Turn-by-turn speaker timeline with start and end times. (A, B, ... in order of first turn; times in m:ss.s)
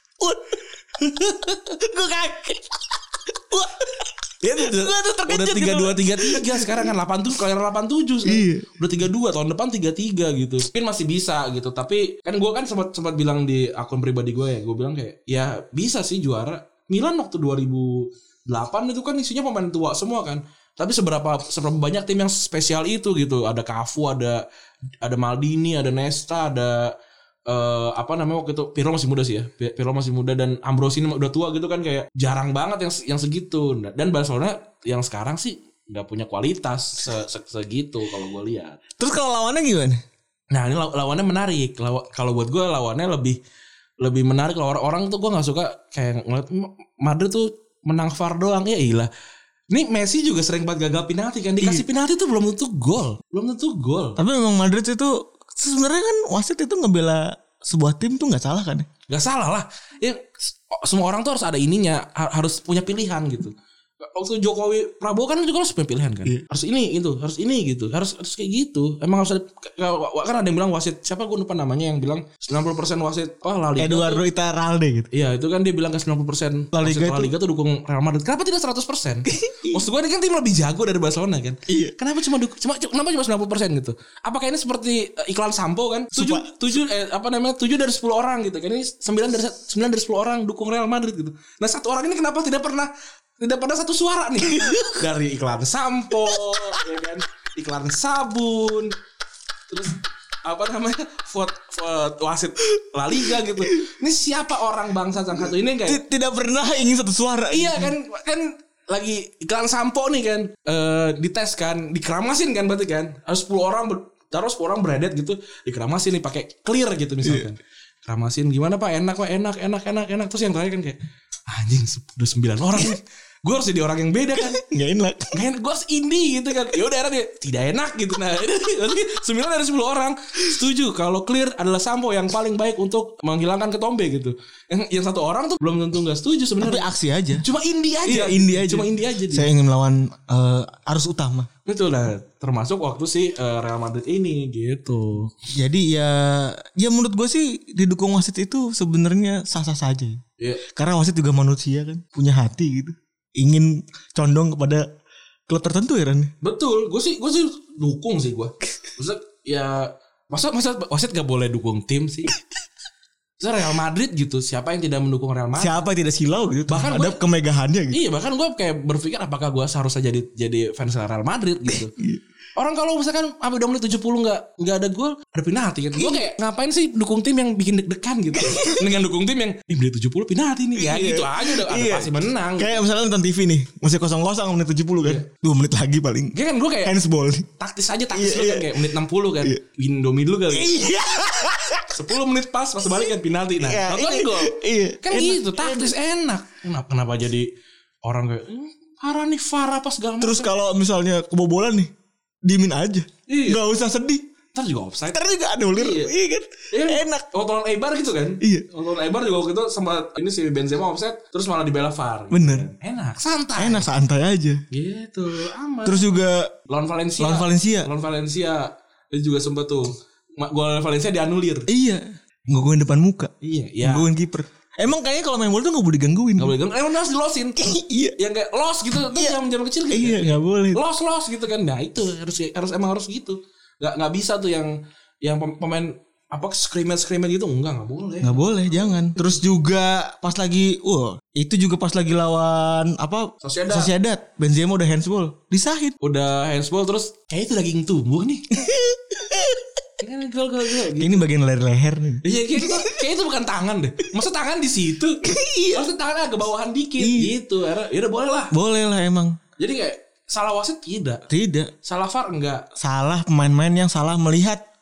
0:00.2-0:06.9 A
0:04.4-0:24.4 B
0:08.2-0:08.7 A
0:25.0-0:26.9 B
0:27.5-0:38.8 B
0:39.0-0:40.0 A
0:40.5-0:43.4 B
0:44.0-0:49.1 B
0:49.7-0:54.2 B
0:51.6-0:51.8 A
0:54.2-0:58.9 A
0:59.1-1:14.2 B
1:13.8-1:15.1 A
1:15.1-1:38.9 B
1:16.7-1:17.3 A
1:19.3-1:19.8 A
1:21.7-1:21.9 A
1:26.1-1:26.5 A
1:34.5-1:35.0 A
1:39.7-1:46.0 B
1:45.8-1:47.9 A
1:47.5-2:01.0 B
1:57.2-1:57.5 A
2:01.5-2:04.6 B
2:04.3-2:05.4 A
2:05.3-2:16.8 B
2:16.6-2:17.4 A
2:17.4-2:19.5 B
2:18.0-2:21.5 A
2:21.6-2:25.3 B
2:25.5-2:34.8 A
2:35.5-2:36.3 A
2:36.4-2:42.3 B
2:43.4-2:45.8 B
2:45.6-2:48.0 A
2:46.7-2:47.2 B
2:47.9-2:51.9 B
2:51.7-2:52.2 A
2:52.6-3:02.8 B
2:56.0-2:56.2 A
2:58.3-2:58.9 A
3:00.7-3:07.5 A
3:06.3-3:07.0 B
3:07.6-3:10.7 B
3:08.1-3:09.6 A
3:10.5-3:12.0 A
3:11.9-3:17.5 B
3:13.0-3:15.9 A
3:18.0-3:20.5 B
3:20.2-3:21.9 A
3:22.4-3:24.2 A
3:23.3-3:23.6 B
3:24.5-3:25.2 B
3:25.1-3:27.2 A
3:25.7-3:26.1 B
3:26.7-3:33.9 B
3:28.4-3:28.6 A
3:32.3-3:32.7 A
3:33.6-3:34.6 A
3:34.7-3:36.1 B
3:35.8-3:36.5 A
3:36.7-3:41.7 B
3:37.2-3:37.9 A
3:41.7-3:46.6 A
3:43.4-3:44.1 B
3:46.4-3:47.6 B
3:47.6-3:48.2 A
3:48.2-3:58.4 B
3:49.0-3:49.4 A
3:49.9-3:50.8 A
3:58.2-4:05.9 A
4:03.4-4:03.9 B
4:06.0-4:08.5 B
4:08.5-4:09.8 A
4:10.0-4:11.2 B
4:11.0-4:13.0 A
4:12.2-4:18.5 B
4:15.2-4:15.9 A
4:17.0-4:17.3 A
4:18.5-4:19.4 A
4:19.6-4:21.2 B
4:21.3-4:21.7 A
4:21.8-4:22.6 B
4:22.8-4:24.6 A